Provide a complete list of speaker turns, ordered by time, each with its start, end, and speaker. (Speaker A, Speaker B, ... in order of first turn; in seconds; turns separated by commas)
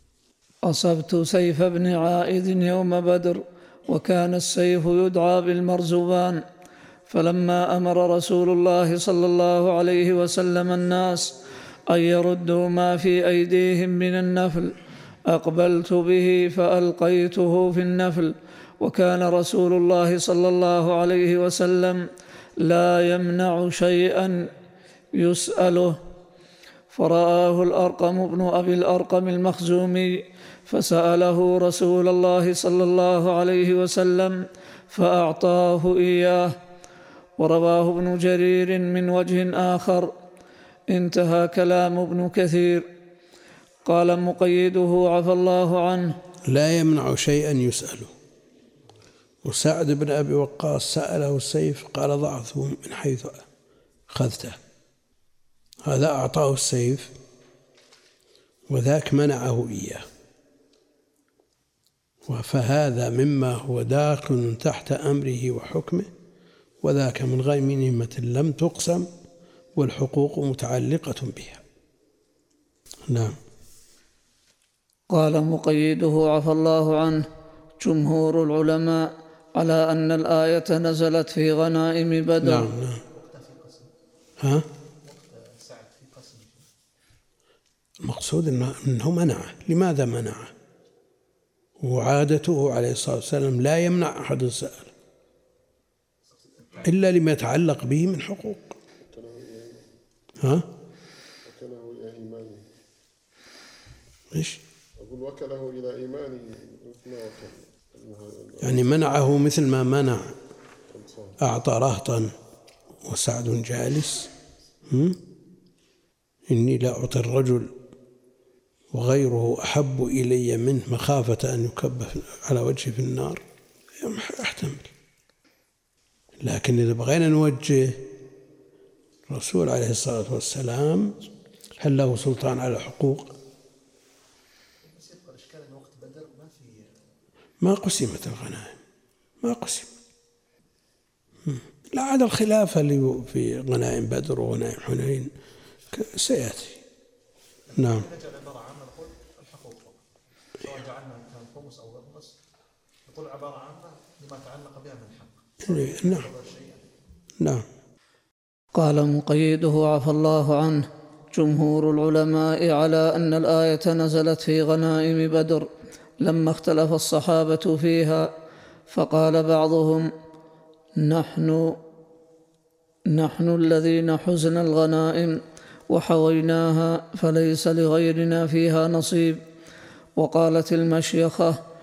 Speaker A: 0.6-6.4, Speaker A: 7.1-22.0, Speaker A: 22.6-24.5, Speaker A: 25.1-26.0, Speaker A: 26.9-36.5, Speaker A: 37.4-40.1, Speaker A: 40.9-42.9, Speaker A: 43.9-46.1, Speaker B: 46.5-48.1, Speaker B: 49.4-53.5, Speaker B: 54.1-54.6, Speaker B: 55.8-57.1, Speaker B: 58.7-60.0, Speaker B: 62.3-66.1, Speaker B: 66.8-69.1, Speaker B: 69.8-71.6, Speaker B: 73.1-73.4, Speaker A: 75.1-77.2, Speaker A: 77.8-82.7, Speaker B: 82.4-83.0, Speaker C: 82.9-83.9, Speaker B: 84.4-84.7, Speaker C: 85.0-86.7, Speaker B: 88.0-90.5, Speaker B: 91.8-94.9, Speaker B: 96.8-98.8, Speaker D: 99.0-99.9, Speaker B: 100.4-100.7, Speaker D: 101.5-102.7, Speaker B: 104.3-104.6, Speaker D: 105.0-108.8, Speaker B: 108.6-110.3, Speaker D: 110.9-111.4, Speaker B: 111.4-112.3, Speaker B: 113.0-114.3, Speaker B: 114.9-115.2, Speaker B: 116.5-117.7, Speaker B: 118.9-123.4, Speaker B: 124.0-124.9, Speaker B: 126.4-128.1, Speaker B: 129.3-131.2, Speaker B: 131.8-133.3, Speaker C: 134.8-137.0, Speaker B: 137.6-138.8, Speaker B: 139.4-139.9, Speaker B: 141.5-145.3, Speaker B: 145.9-146.8, Speaker C: 147.7-150.0, Speaker B: 147.8-148.1, Speaker C: 150.6-152.4, Speaker C: 153.1-156.9, Speaker B: 155.6-156.3, Speaker A: 158.8-165.7, Speaker A: 166.2-168.3, Speaker A: 168.9-170.1, Speaker A: 171.0-171.7, Speaker A: 173.1-179.4, Speaker A: 180.2-181.6